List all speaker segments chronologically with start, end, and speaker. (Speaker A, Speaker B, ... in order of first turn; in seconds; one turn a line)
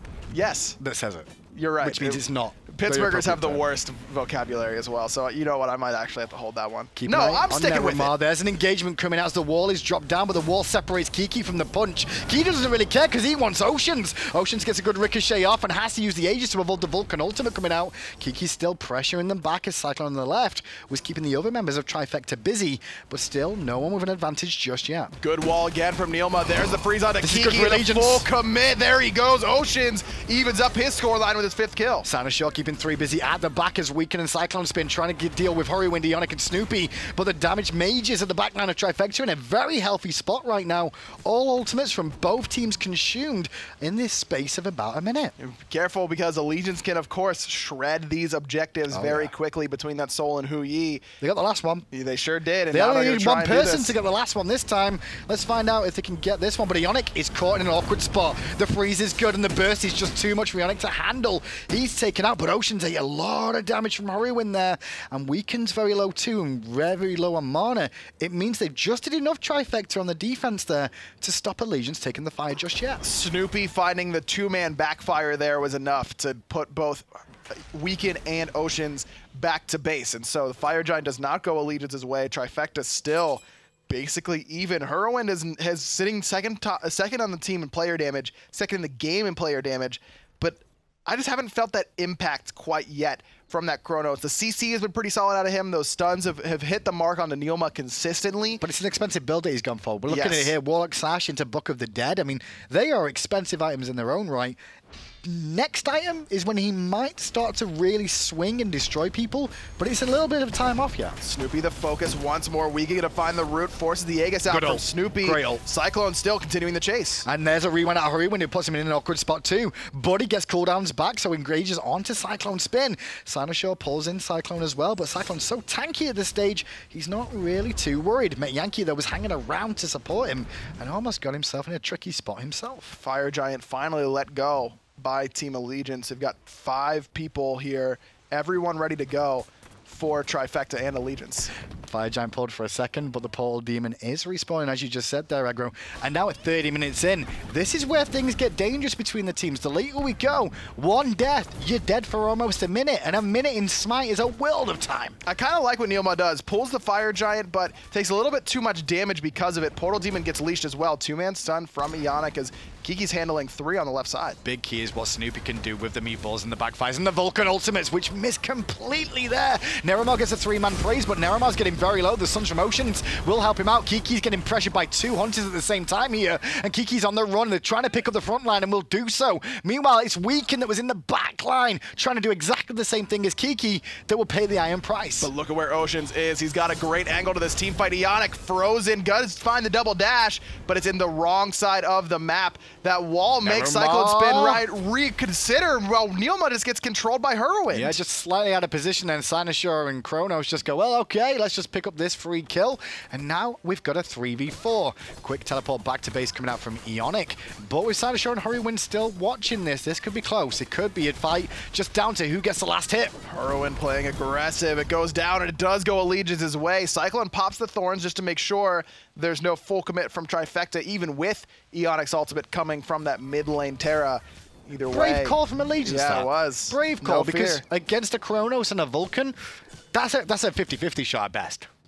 Speaker A: 0.3-0.8
Speaker B: 0.8-3.6
Speaker A: 1.5-8.1
Speaker B: 7.0-25.1
Speaker A: 25.2-32.1
Speaker B: 27.2-28.3
Speaker B: 32.0-45.3
Speaker A: 45.4-51.0
Speaker B: 48.9-49.3
Speaker B: 51.2-51.9
Speaker A: 51.9-54.0
Speaker B: 52.7-73.0
Speaker A: 73.0-98.6
Speaker B: 98.6-104.6
Speaker A: 100.1-100.5
Speaker B: 105.2-111.2
Speaker A: 111.2-117.2
Speaker B: 114.5-115.6
Speaker B: 117.2-133.0
Speaker A: 133.0-141.5
Speaker B: 141.8-155.2
Speaker A: 155.2-164.4
Speaker B: 164.4-185.3
Speaker A: 185.2-198.0
Speaker B: 193.4-194.6
Speaker B: 197.7-213.2
Speaker A: 213.3-227.6
Speaker B: 224.9-229.3
Speaker B: 229.9-231.7